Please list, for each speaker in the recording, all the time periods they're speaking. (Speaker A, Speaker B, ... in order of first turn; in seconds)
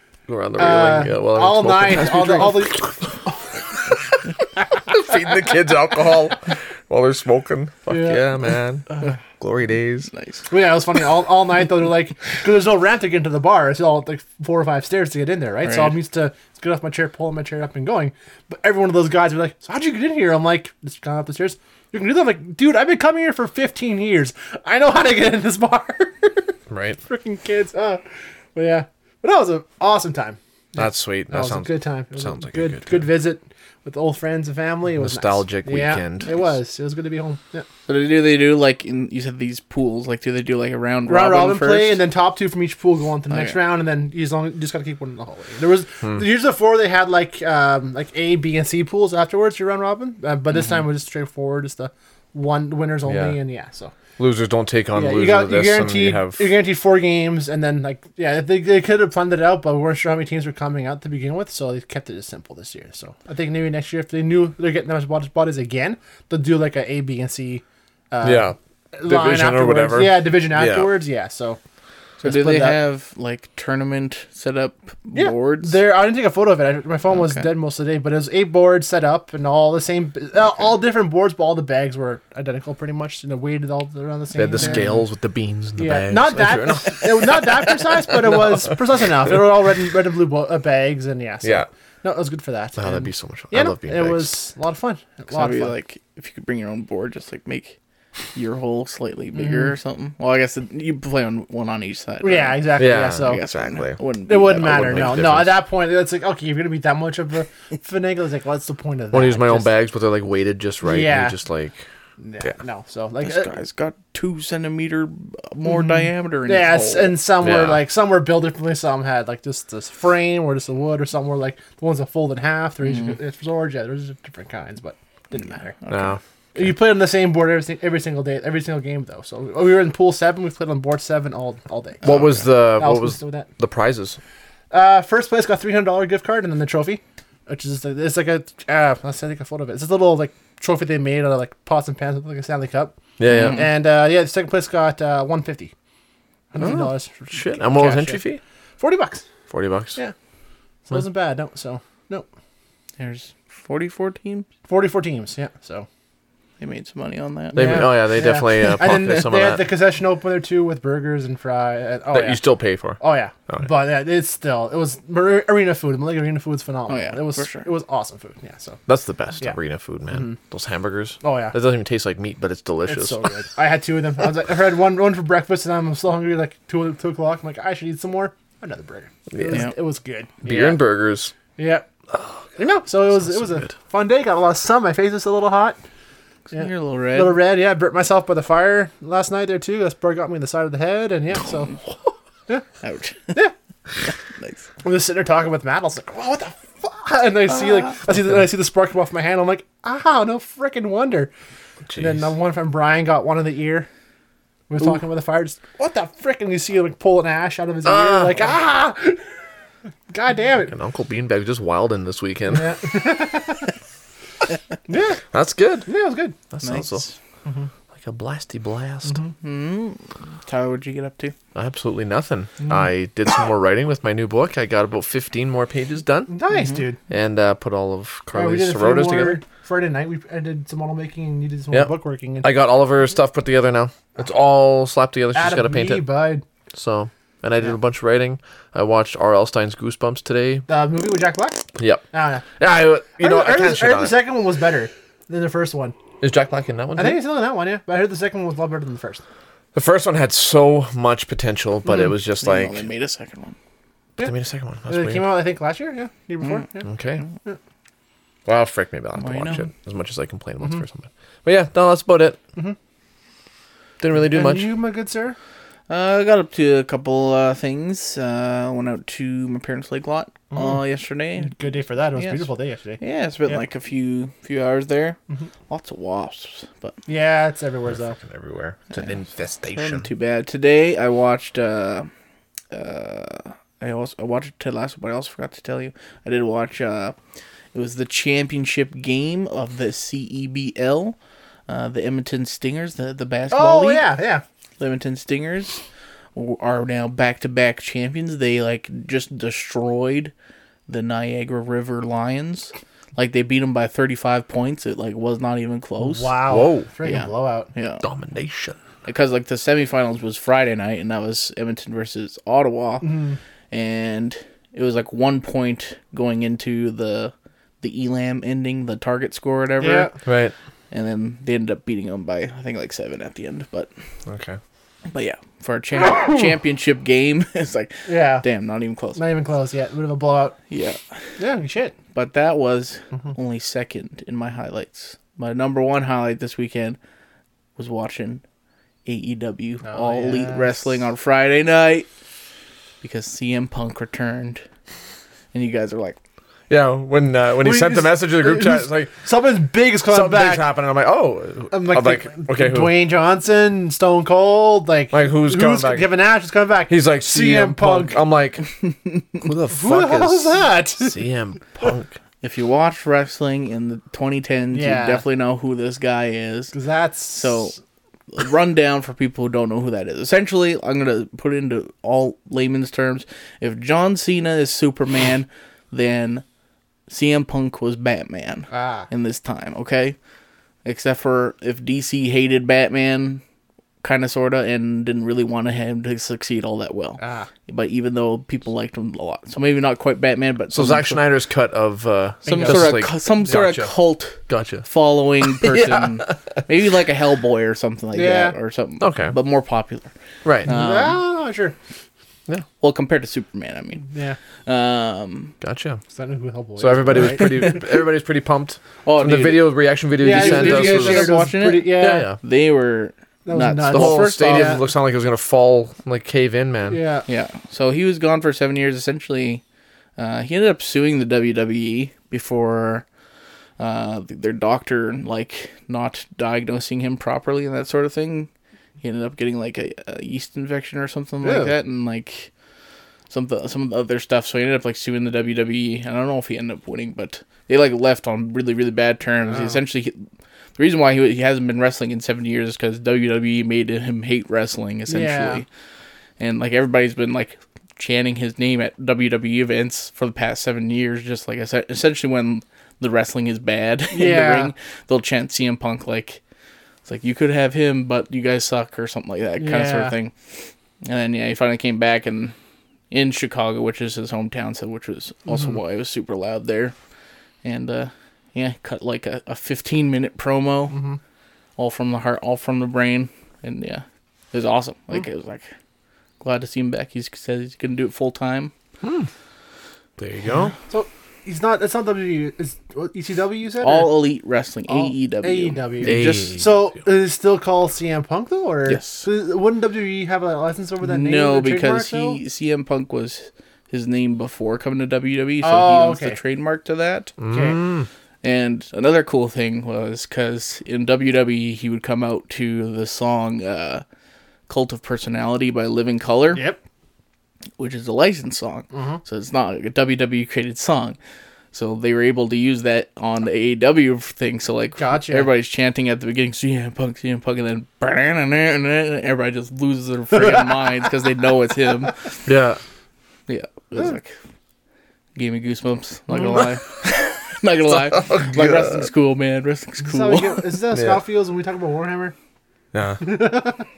Speaker A: 0.3-2.9, 4.8-8.9, 9.4-10.1, 26.7-27.0, 30.8-33.1, 35.0-36.3, 53.1-53.4, 54.2-56.4, 68.2-70.9, 84.3-87.5, 92.8-94.3, 102.8-104.0, 104.5-105.6, 109.1-111.8, 117.4-117.8, 125.9-126.7, 132.0-134.2, 143.2-143.6, 146.6-148.4, 149.5-150.0, 157.5-159.6, 162.1-163.7, 168.9-173.3, 179.3-179.7, 180.4-181.3, 182.1-182.4, 183.1-183.7, 201.9-202.3, 207.8-208.4, 210.7-212.7, 215.3-215.9, 216.5-217.0, 217.9-219.2, 221.5-226.3, 227.1-229.4, 231.7-236.0, 236.7-240.6, 241.8-242.0, 242.6-244.2, 246.2-247.2, 249.7-252.8, 254.2-255.2, 256.8-257.2, 258.4-262.4, 264.0-264.7, 277.9-280.1, 306.5-306.9, 308.0-308.8, 320.2-320.5, 324.3-324.6, 346.7-349.1, 350.1-353.0, 355.1-356.1, 356.9-358.7, 359.4-362.1, 390.7-393.9, 394.5-394.9, 395.4-396.5, 399.0-399.4, 405.6-406.0, 406.8-411.4, 411.9-412.4, 413.9-417.0, 479.0-479.3, 480.2-480.7, 486.0-486.7, 497.4-498.1, 522.5-522.8, 527.9-529.1, 530.9-531.2, 532.9-533.4
Speaker B: 0.6-3.5, 7.9-8.2, 8.9-9.1, 10.5-28.0, 28.5-37.6, 41.1-53.9, 54.9-71.6, 72.2-72.8, 75.1-85.0, 85.8-95.7, 99.3-99.7, 102.2-103.4, 104.2-109.7, 110.8-111.3, 112.2-113.5, 115.7-125.7, 126.5-133.5, 134.7-145.7, 146.5-148.2, 148.8-149.2, 150.9-152.3, 154.7-155.9, 157.5-162.4, 163.0-168.8, 170.1-170.4, 171.2-171.5, 172.9-180.8, 181.6-181.8, 182.8-185.8, 186.5-191.7, 194.8-201.3, 202.0-203.9, 204.7-209.3, 210.1-210.7, 212.5-213.7, 214.9-215.2, 215.8-216.3, 219.1-219.3, 222.6-222.9, 226.3-227.0, 228.3-232.5, 235.3-236.4, 240.7-242.4, 243.2-245.9, 246.9-249.2, 254.9-256.9, 264.2-265.4, 270.5-270.8, 271.4-273.6, 277.1-278.2, 293.5-294.4, 306.0-307.7, 313.0-313.4, 319.8-320.1, 328.1-328.4, 329.1-330.6, 331.4-331.9, 339.9-340.8, 347.6-350.6, 351.7-358.2, 359.7-361.2, 364.7-365.2, 366.7-367.7, 378.7-379.1, 387.2-387.5, 392.4-392.9, 398.1-398.5, 400.7-401.8, 404.1-404.4, 406.1-407.8, 410.2-412.3, 413.4-414.8, 416.9-417.2, 431.4-431.7, 439.4-439.8, 445.1-445.6, 454.1-454.7, 459.6-460.1, 470.9-471.2, 480.9-484.2, 484.9-492.4, 495.6-496.4, 497.5-497.8, 506.5-506.8, 508.9-509.2, 515.0-515.5, 526.4-526.6, 530.0-532.3, 533.2-533.9
Speaker C: 10.1-10.5, 15.6-15.9, 37.9-42.0, 43.3-43.6, 72.2-75.8, 77.1-77.5, 84.6-84.8, 95.3-97.8, 98.3-105.2, 113.2-117.2, 122.8-123.2, 125.6-126.2, 143.4-143.7, 153.0-154.5, 156.6-157.9, 166.9-167.7, 186.5-187.3, 192.8-193.3, 194.1-194.7, 216.6-217.1, 219.4-221.3, 226.5-226.8, 252.3-253.6, 259.2-259.7, 265.9-271.6, 272.1-272.5, 273.0-275.2, 275.7-277.0, 279.7-282.1, 282.7-287.1, 287.7-291.1, 291.7-294.1, 294.8-295.8, 296.3-300.3, 300.9-306.4, 307.0-308.0, 309.0-313.1, 313.7-320.1, 320.9-323.9, 325.1-329.2, 330.7-331.2, 332.1-337.0, 337.8-338.4, 339.1-342.1, 343.0-344.6, 345.5-346.2, 362.4-366.7, 367.3-367.8, 368.3-376.4, 377.1-380.1, 380.8-383.4, 384.0-391.2, 392.4-400.1, 400.6-401.2, 402.8-404.1, 404.6-405.5, 407.4-407.7, 409.0-414.8, 417.3-419.6, 420.2-423.0, 423.8-428.5, 429.0-432.5, 433.3-440.2, 440.8-445.7, 446.4-456.4, 457.1-462.5, 463.1-466.9, 467.6-471.0, 471.8-475.7, 476.4-478.7, 483.8-486.4, 488.9-489.2, 491.0-497.3, 498.4-504.0, 504.7-506.6, 507.8-511.2, 511.7-522.4, 523.5-524.3, 525.4-530.8